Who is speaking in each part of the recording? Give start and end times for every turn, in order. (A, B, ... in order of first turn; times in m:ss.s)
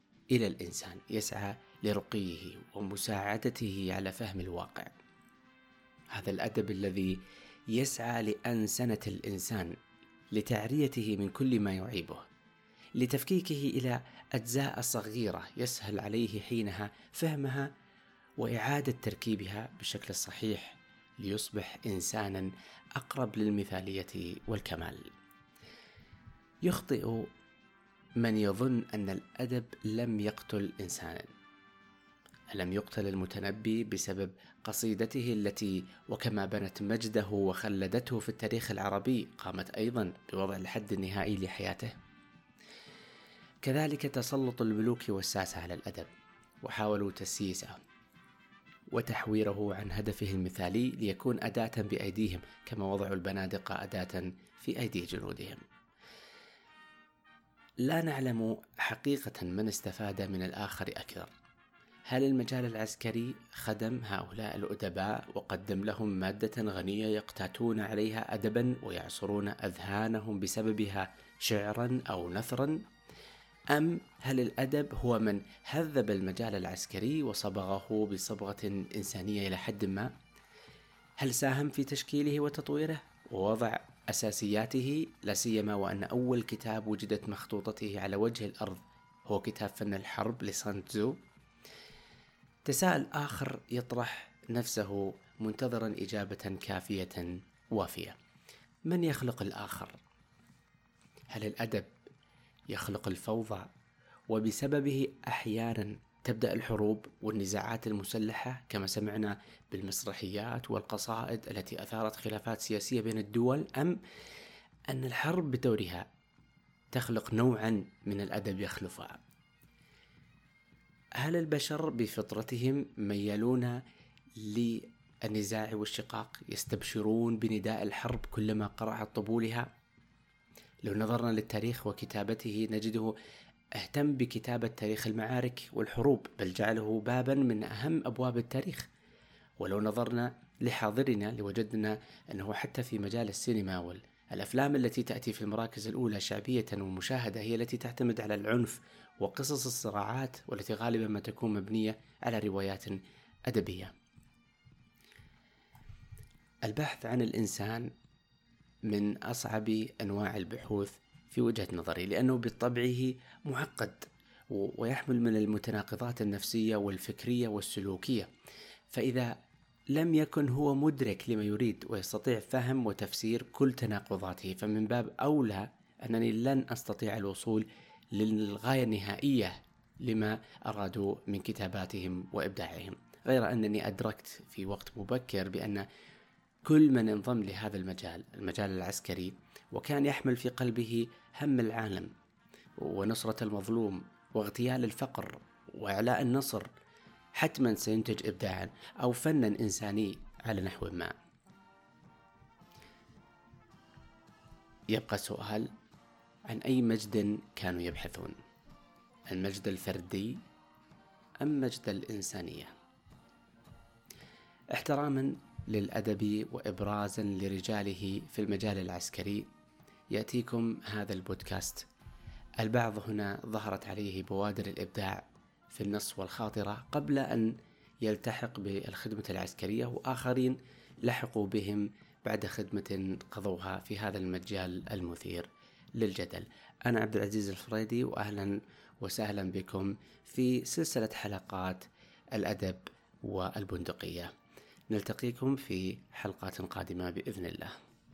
0:00.3-0:04.9 A
0:06.1-0:07.2 A
0:07.7-0:09.8 A
0:10.3-0:12.2 A
0:13.0-0:17.7 A
0:18.4-0:25.1 A
0:26.6-0:27.3 A
0:28.2-0:31.3 A
0:32.5-0:41.9 A
0:43.6-0:46.1 A
0:46.6-0:47.8 A
0:48.9-0:55.6 A
0:57.8-1:01.3 A
1:02.1-1:12.8 A
1:13.7-1:20.1 A
1:21.2-1:31.2 A
1:32.6-1:38.1 A
1:38.9-1:40.0 A
1:41.3-1:41.9 A
1:42.7-1:43.7 A
1:44.3-1:54.0 A
1:54.9-1:56.1 A
1:56.9-1:59.2 A
2:01.2-2:03.8 A
2:04.4-2:09.7 A
2:10.8-2:13.1 A
2:13.8-2:18.9 A
2:19.6-2:33.9 A
2:36.6-2:37.9 A
2:38.9-2:48.3 A
2:48.9-2:49.3 A
2:49.9-3:05.8 A
3:06.6-3:12.1 A
3:12.8-3:16.7 A
3:17.4-3:21.1 A
3:24.9-3:25.7 A
3:26.5-3:28.4 A
3:29.3-3:30.4 A
3:31.4-3:32.7 A
3:34.7-3:39.5 A
3:40.1-3:41.8 A
3:42.6-4:04.3 A
4:04.9-4:07.7 A